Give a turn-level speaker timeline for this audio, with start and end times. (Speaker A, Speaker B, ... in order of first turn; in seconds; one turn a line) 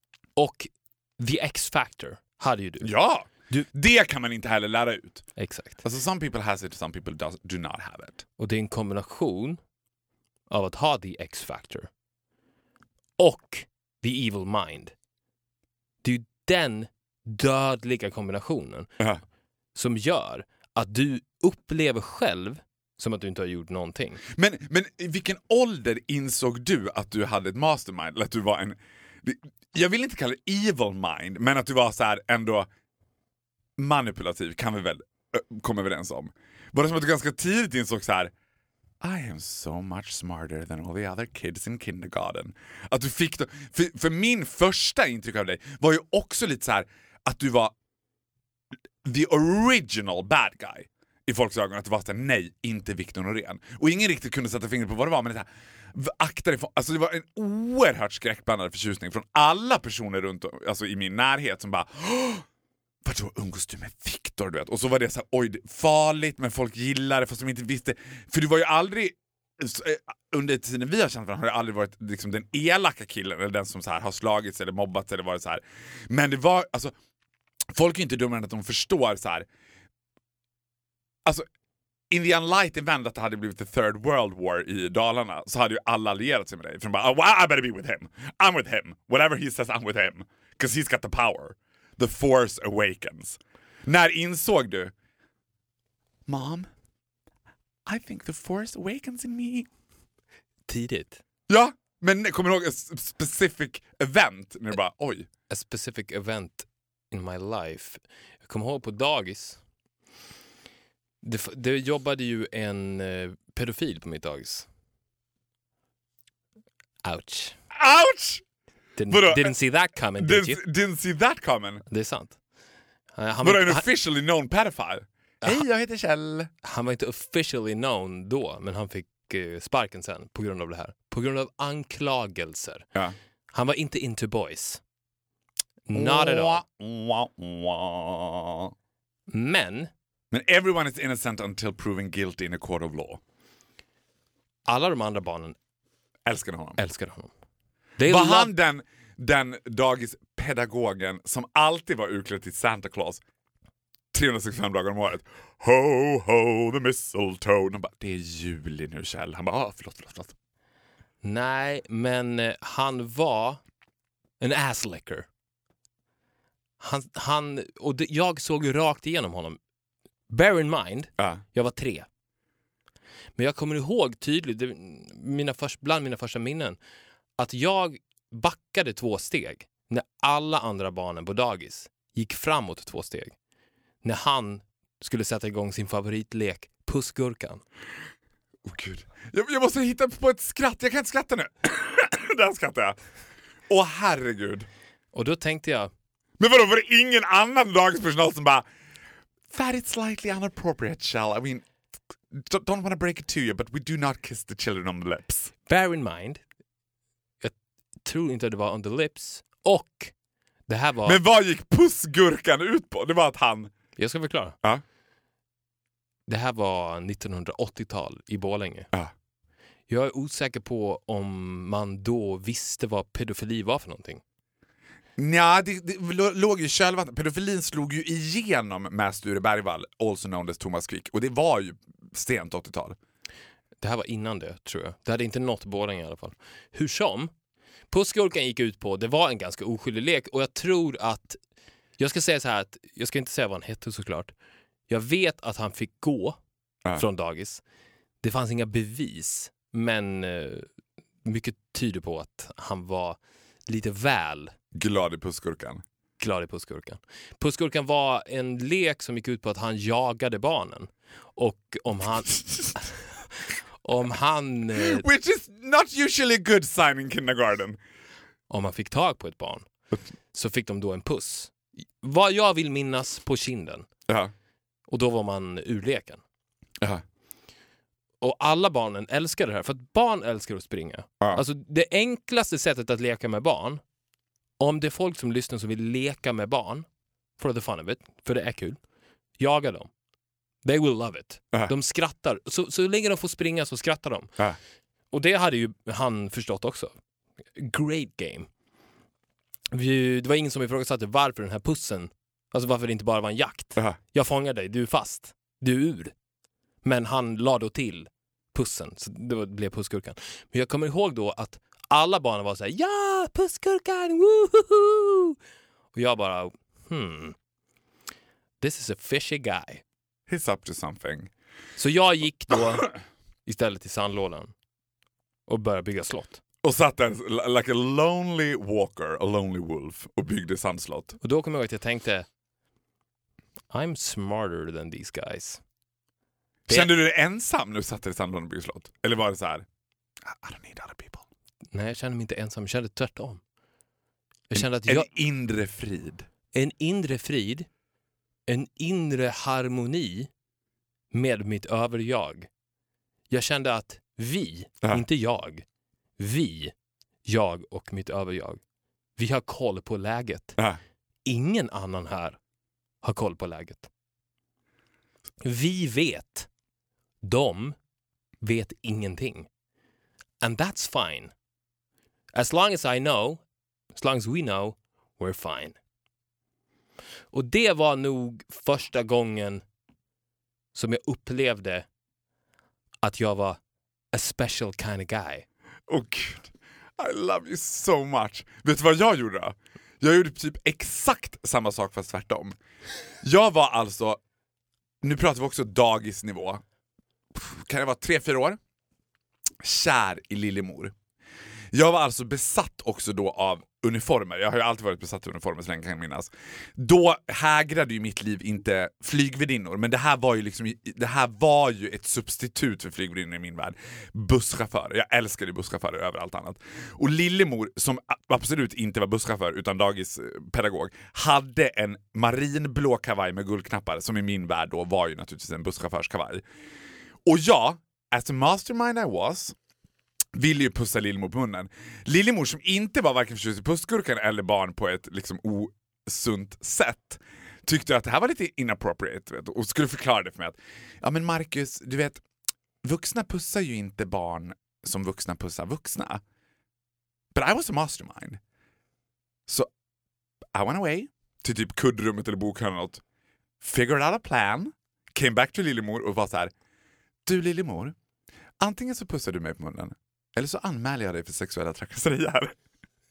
Speaker A: 0.3-2.9
Speaker B: 2.8-5.3
Speaker A: 5.3-5.8
Speaker B: 5.8-8.2
Speaker A: 8.4-9.6
Speaker A: 10.5-11.9
Speaker A: 13.2-14.9
Speaker A: 16.0-18.9
Speaker A: 19.7-24.2
Speaker B: 24.3-32.7
Speaker B: 33.8-38.3
Speaker B: 39.0-47.7
Speaker B: 49.0-62.4
Speaker B: 63.0-76.9
Speaker B: 77.7-79.5
Speaker B: 82.1-94.9
Speaker B: 96.3-96.7
Speaker B: 97.8-99.7
Speaker A: 100.7-101.2
Speaker B: 101.5-105.3
Speaker A: 105.5-109.6
Speaker A: 111.2-114.7
Speaker A: 117.0-117.5
Speaker B: 117.7-118.4
Speaker A: 119.0-120.6
Speaker B: 119.1-119.5
Speaker B: 120.2-121.8
Speaker A: 121.9-122.4
Speaker A: 123.2-123.9
Speaker B: 123.4-126.5
Speaker A: 126.6-132.8
Speaker A: 133.5-134.8
Speaker A: 135.9-136.6
Speaker B: 135.9-138.7
Speaker A: 139.3-139.9
Speaker B: 140.3-143.2
Speaker A: 144.7-145.6
Speaker B: 146.2-146.8
Speaker A: 146.8-147.3
Speaker A: 148.0-148.5
Speaker B: 148.0-153.2
Speaker B: 154.1-160.3
Speaker A: 161.2-163.6
Speaker A: 164.4-165.3
Speaker A: 166.8-169.6
Speaker A: 170.3-172.1
Speaker A: 173.3-176.8
Speaker A: 177.4-183.3
Speaker A: 184.0-187.6
Speaker B: 188.6-193.0
Speaker B: 193.7-194.7
Speaker A: 195.1-195.9
Speaker B: 196.4-198.6
Speaker B: 199.5-201.6
Speaker B: 202.3-205.5
Speaker A: 205.7-206.4
Speaker A: 207.4-210.1
Speaker A: 210.7-211.2
Speaker B: 211.0-213.7
Speaker A: 213.9-214.6
Speaker A: 216.3-218.9
Speaker A: 219.9-224.2
Speaker B: 225.2-232.9
Speaker A: 233.8-237.3
Speaker A: 237.9-241.4
Speaker A: 242.0-244.3
Speaker A: 244.9-246.4
Speaker A: 246.9-247.6
Speaker A: 248.2-250.7
Speaker A: 251.2-254.5
Speaker B: 254.7-255.8
Speaker A: 256.2-263.0
Speaker A: 263.8-265.0
Speaker B: 264.8-267.8
Speaker A: 268.5-269.6
Speaker A: 270.3-273.9
Speaker A: 274.9-276.2
Speaker A: 278.2-283.8
Speaker A: 284.6-286.9
Speaker A: 287.4-288.8
Speaker A: 289.4-289.9
Speaker A: 290.6-294.3
Speaker A: 295.1-296.9
Speaker A: 297.6-298.5
Speaker A: 299.7-306.1
Speaker A: 306.8-315.4
Speaker A: 315.9-317.4
Speaker A: 318.6-319.8
Speaker B: 320.3-321.3
Speaker A: 321.8-322.9
Speaker A: 323.4-324.5
Speaker A: 325.5-326.4
Speaker B: 326.6-331.2
Speaker A: 331.2-332.2
Speaker A: 333.7-335.6
Speaker A: 336.7-336.9
Speaker B: 336.7-339.6
Speaker B: 340.2-341.2
Speaker A: 341.7-343.4
Speaker A: 344.5-345.1
Speaker B: 344.5-346.3
Speaker A: 346.5-347.7
Speaker A: 348.5-350.3
Speaker A: 351.1-352.5
Speaker A: 353.3-355.6
Speaker A: 356.2-356.7
Speaker A: 357.2-358.6
Speaker A: 359.2-360.6
Speaker A: 361.2-362.4
Speaker A: 363.0-363.9
Speaker A: 365.4-366.5
Speaker A: 367.2-367.8
Speaker A: 368.4-369.5
Speaker A: 370.4-371.3
Speaker A: 372.3-373.4
Speaker A: 373.9-375.8
Speaker A: 377.3-379.6
Speaker A: 380.7-381.9
Speaker A: 383.0-383.6
Speaker A: 384.1-385.4
Speaker B: 385.9-392.6
Speaker B: 393.2-394.2
Speaker B: 395.0-396.6
Speaker B: 397.3-398.6
Speaker B: 399.6-400.9
Speaker B: 401.7-426.4
Speaker B: 427.2-429.5
Speaker B: 430.3-442.2
Speaker B: 442.8-446.2
Speaker B: 447.3-448.4
Speaker B: 450.5-453.0
Speaker B: 453.6-456.5
Speaker B: 457.2-457.9
Speaker B: 458.6-462.6